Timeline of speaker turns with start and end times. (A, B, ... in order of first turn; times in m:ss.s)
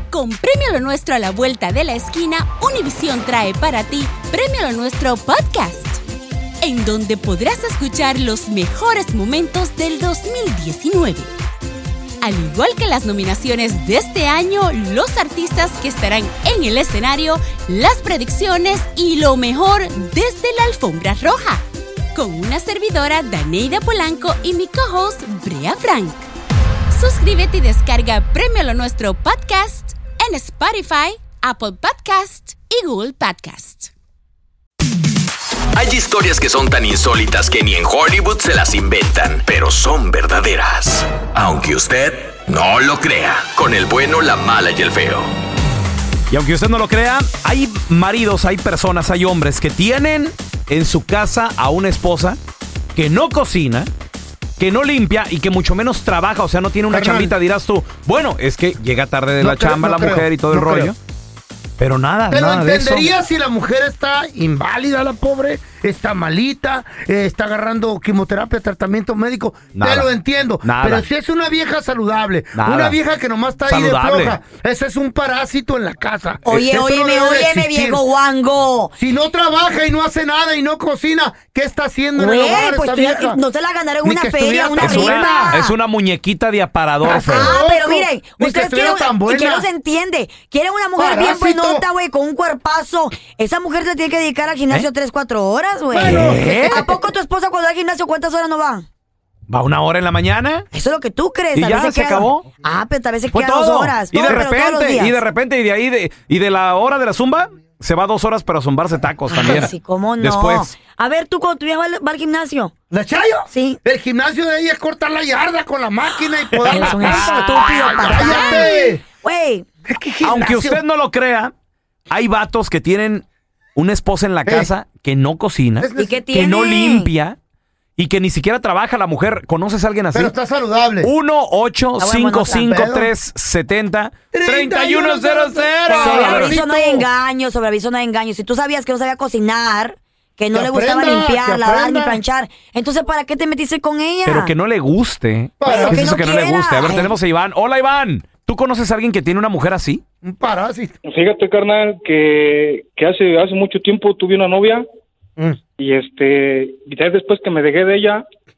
0:00.1-0:06.0 A
0:06.6-0:11.3 A
0:12.2-0:21.6 A
0:22.1-0:26.2 A
0:26.9-0:33.9 A
0:35.7-0:45.3 B
0:46.3-0:52.4 C
0:52.9-0:53.9 C
0:54.6-1:01.0 C
0:56.9-0:57.4 D
0:59.4-1:00.9 D
1:01.8-1:03.1 C
1:02.3-1:18.0 D
1:09.7-1:10.1 C
1:10.6-1:11.0 C
1:12.5-1:13.0 C
1:13.6-1:14.4 C
1:16.4-1:18.9 E
1:19.0-1:23.4 D
1:22.2-1:25.7 E
1:24.0-1:25.6 D
1:24.8-1:27.5 C
1:27.0-1:29.7 D
1:27.2-1:38.8 E
1:31.0-1:31.8 D
1:35.9-1:36.9 D
1:36.0-1:36.8 C
1:39.5-1:40.7 C
1:40.7-1:45.2 E
1:41.5-1:42.4 C
1:43.3-1:50.7 C
1:49.3-1:52.7 E
1:52.9-1:59.0 D
1:53.5-1:53.8 E
1:56.4-1:57.8 C
1:56.6-1:59.6 E
1:59.8-2:00.8 D
2:00.2-2:01.5 C
2:02.1-2:03.2 C
2:03.8-2:07.4 C
2:04.4-2:04.7 D
2:05.8-2:06.3 D
2:06.0-2:07.1 E
2:08.0-2:10.3 C
2:10.1-2:11.1 D
2:11.0-2:16.5 C
2:12.0-2:12.8 E
2:12.6-2:13.1 D
2:14.3-2:17.1 D
2:15.9-2:24.5 E
2:20.5-2:22.2 D
2:24.2-2:30.0 C
2:25.6-2:26.1 D
2:25.6-2:27.1 E
2:30.2-2:30.9 D
2:31.0-2:34.8 F
2:35.8-2:38.2 F